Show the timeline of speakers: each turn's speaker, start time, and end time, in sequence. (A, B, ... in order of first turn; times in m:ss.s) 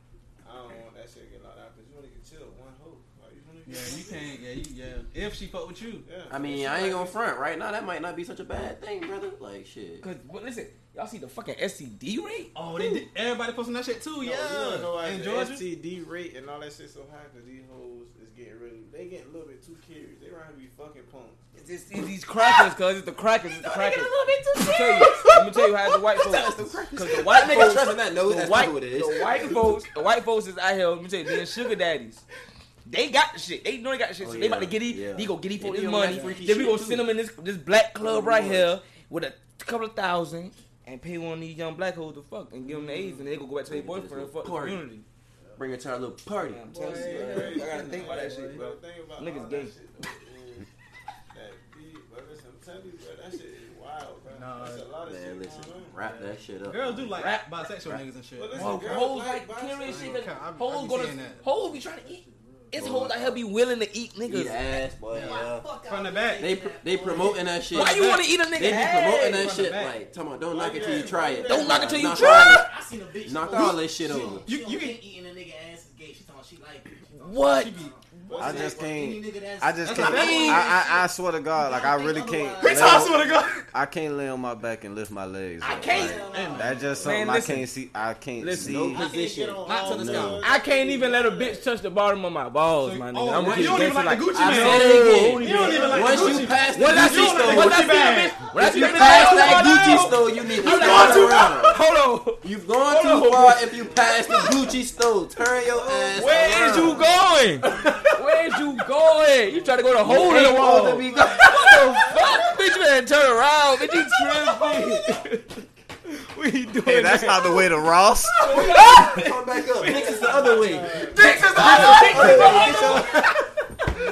0:00.4-0:04.4 A
0:03.6-0:06.1 B
0:06.0-0:07.2 A
0:06.3-0:10.0 C
0:10.0-0:12.5 D
0:12.5-0:15.6 B
0:14.2-0:21.4 A
0:21.5-0:32.2 D
0:22.4-0:22.7 C
0:23.5-0:29.8 C
0:32.8-0:45.0 D
0:34.2-0:37.1 C
0:36.2-0:36.6 B
0:38.0-0:38.7 C
0:42.6-0:43.2 B
0:43.6-0:44.8 C
0:45.6-0:46.7 C
0:46.4-0:49.7 D
0:46.7-0:48.6 B
0:46.7-0:50.7 A
0:51.3-0:56.0 A
0:54.3-0:54.9 B
0:55.0-0:58.0 C
0:56.0-0:58.8 B
0:57.2-0:57.4 D
0:58.3-1:00.2 A
0:58.5-1:04.8 D
0:59.8-1:01.4 B
1:01.0-1:02.8 E
1:02.8-1:03.4 C
1:04.2-1:05.7 C
1:05.1-1:06.5 B
1:05.1-1:07.6 E
1:06.4-1:12.7 C
1:07.7-1:08.4 B
1:07.7-1:09.5 D
1:09.3-1:10.0 B
1:10.5-1:12.0 A
1:11.4-1:12.7 D
1:12.0-1:23.4 E
1:13.2-1:14.5 C
1:14.4-1:15.0 B
1:17.2-1:18.7 D
1:17.4-1:18.0 B
1:18.3-1:19.1 A
1:18.4-1:29.0 F
1:19.8-1:20.8 B
1:22.6-1:23.7 B
1:25.6-1:26.4 D
1:25.8-1:27.0 E
1:25.9-1:27.0 A
1:26.3-1:26.8 B
1:27.0-1:27.7 D
1:28.4-1:28.9 D
1:28.5-1:30.3 C
1:28.9-1:31.7 A
1:29.6-1:30.4 B
1:30.4-1:44.5 D
1:32.8-1:41.5 B
1:33.3-1:41.8 C
1:35.7-1:36.0 A
1:42.4-1:48.1 C
1:46.0-1:46.8 B
1:46.1-1:55.5 D
1:46.7-1:47.1 A
1:50.0-1:51.9 C
1:51.4-1:52.4 B
1:54.5-1:54.8 B
1:56.0-1:57.7 D
1:56.8-1:58.6 F
1:58.4-2:00.5 D
1:58.4-2:03.4 C
1:59.8-2:02.8 A
2:01.1-2:04.0 D
2:01.1-2:03.2 B